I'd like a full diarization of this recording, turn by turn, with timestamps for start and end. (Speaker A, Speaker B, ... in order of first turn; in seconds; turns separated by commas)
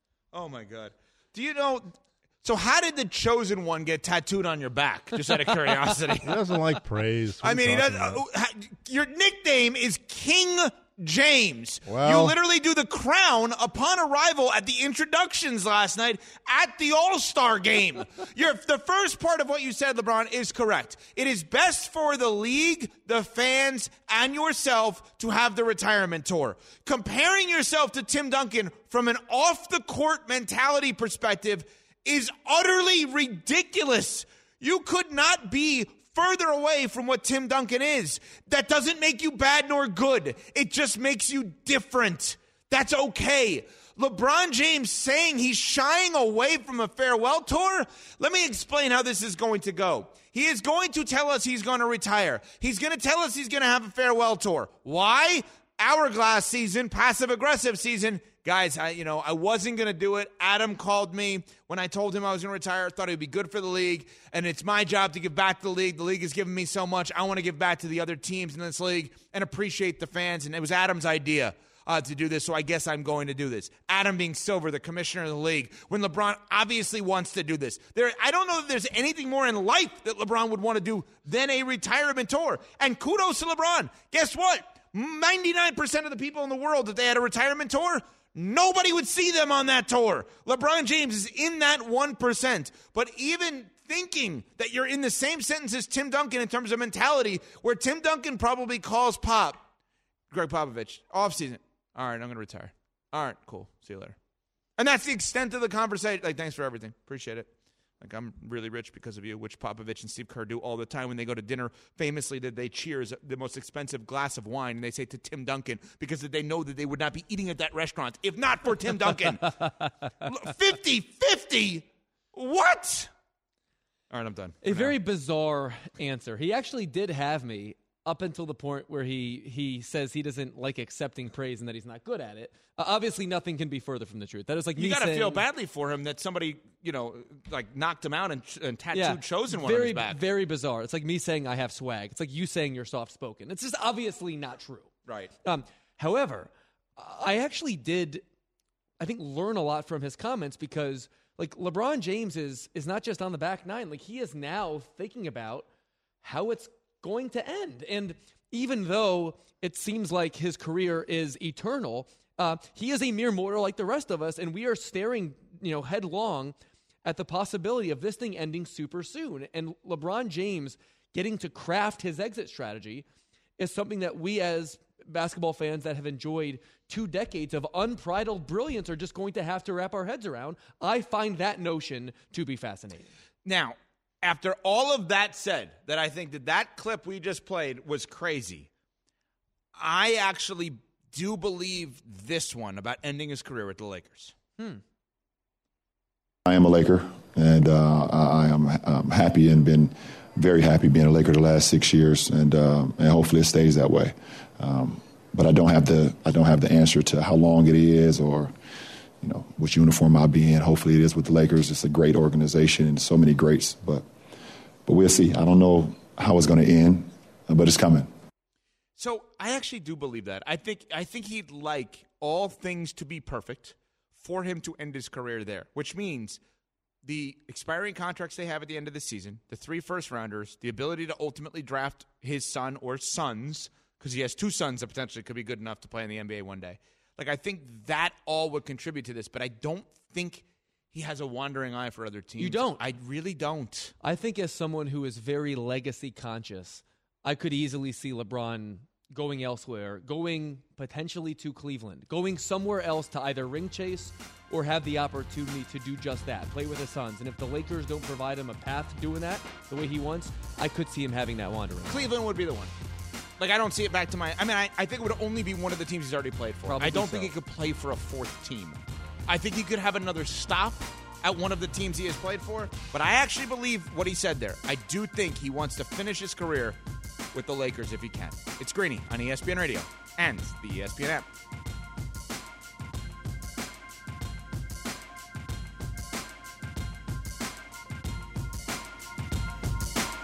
Speaker A: 0.3-6.6, Speaker B: 6.2-8.2, Speaker A: 7.4-99.6, Speaker B: 11.8-12.3, Speaker A: 100.3-104.2, Speaker A: 104.8-107.5, Speaker A: 108.0-119.7, Speaker A: 120.2-123.1, Speaker A: 124.1-124.9, Speaker C: 124.6-135.4, Speaker A: 134.8-140.2, Speaker C: 138.9-144.9, Speaker A: 145.1-145.3, Speaker C: 145.4-148.2, Speaker C: 149.0-155.7, Speaker C: 156.2-173.0, Speaker C: 173.6-183.1, Speaker A: 183.4-188.7, Speaker A: 189.7-194.3, Speaker D: 196.4-208.5, Speaker D: 209.2-214.0, Speaker D: 214.8-218.1, Speaker A: 219.0-226.4, Speaker A: 227.0-243.9, Speaker C: 242.4-242.8, Speaker C: 244.0-262.0, Speaker A: 261.9-262.7, Speaker A: 263.4-276.8, Speaker C: 266.7-267.3, Speaker A: 277.3-281.2